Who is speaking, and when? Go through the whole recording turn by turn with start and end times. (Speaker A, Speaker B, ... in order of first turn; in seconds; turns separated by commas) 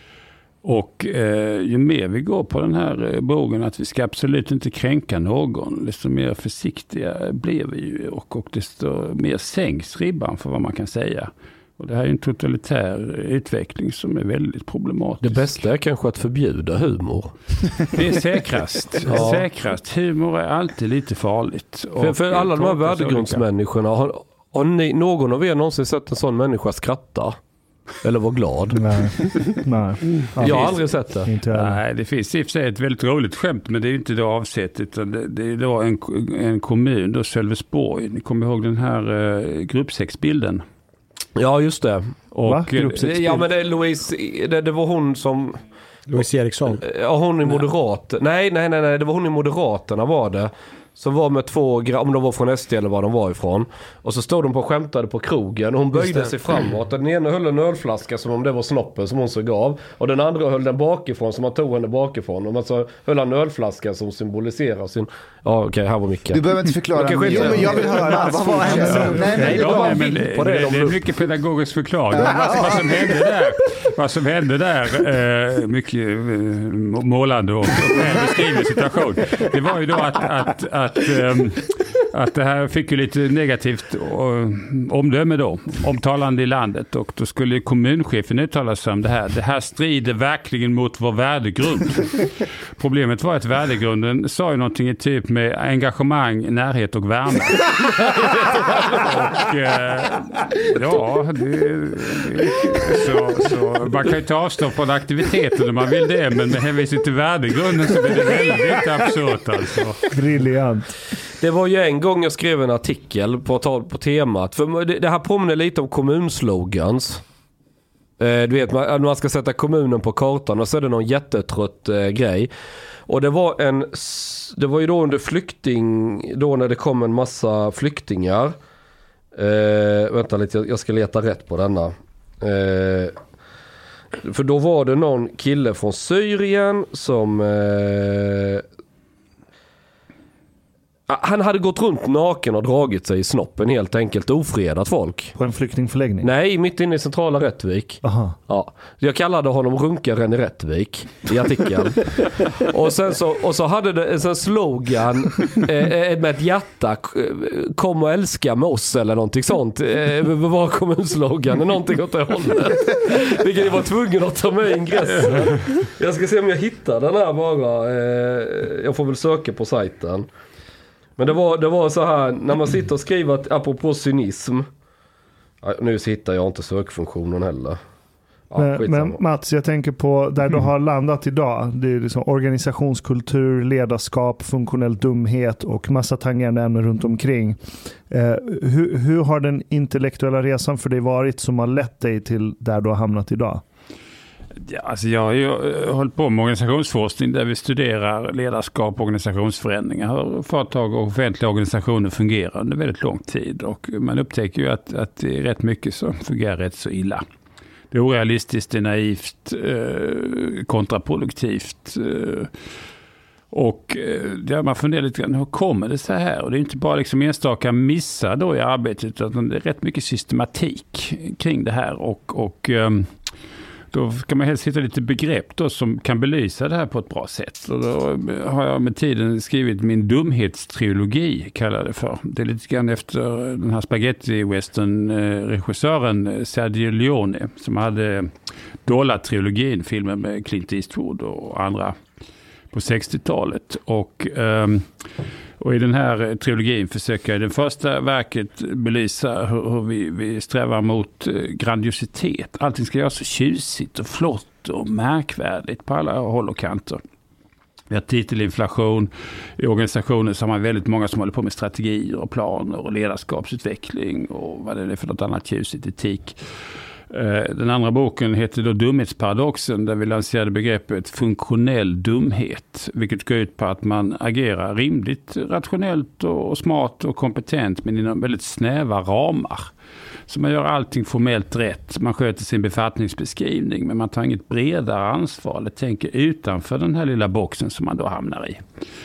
Speaker A: 0.6-15.6, Speaker B: 15.2-17.3, Speaker A: 17.9-23.4, Speaker B: 19.1-19.4, Speaker B: 22.0-27.4, Speaker B: 28.0-28.8, Speaker C: 28.7-31.8, Speaker B: 30.4-31.3, Speaker A: 30.4-30.8, Speaker A: 31.5-40.6, Speaker B: 41.4-42.1, Speaker A: 42.3-43.4, Speaker C: 42.4-43.4, Speaker B: 43.0-45.6, Speaker D: 46.1-46.8, Speaker B: 46.8-66.4, Speaker E: 66.3-70.0, Speaker B: 66.9-68.2, Speaker D: 67.3-70.0, Speaker C: 68.1-69.7, Speaker A: 68.7-110.1, Speaker B: 69.2-71.0, Speaker E: 72.1-72.8, Speaker D: 72.1-73.0, Speaker C: 110.1-111.0, Speaker B: 111.4-117.2, Speaker B: 118.2-122.5, Speaker B: 123.1-128.5, Speaker B: 129.3-133.2, Speaker B: 134.2-138.6, Speaker B: 141.1-145.3, Speaker C: 145.3-146.3, Speaker B: 146.2-170.3, Speaker C: 148.0-148.3, Speaker B: 171.2-174.7, Speaker B: 175.6-177.8, Speaker B: 178.5-179.2, Speaker C: 178.6-193.6, Speaker A: 194.6-207.2, Speaker A: 207.9-212.5, Speaker A: 213.5-223.1, Speaker A: 223.9-238.3, Speaker A: 238.8-242.0, Speaker A: 242.7-244.9, Speaker A: 245.6-257.0, Speaker A: 257.9-266.4, Speaker A: 267.1-279.7, Speaker A: 280.3-288.6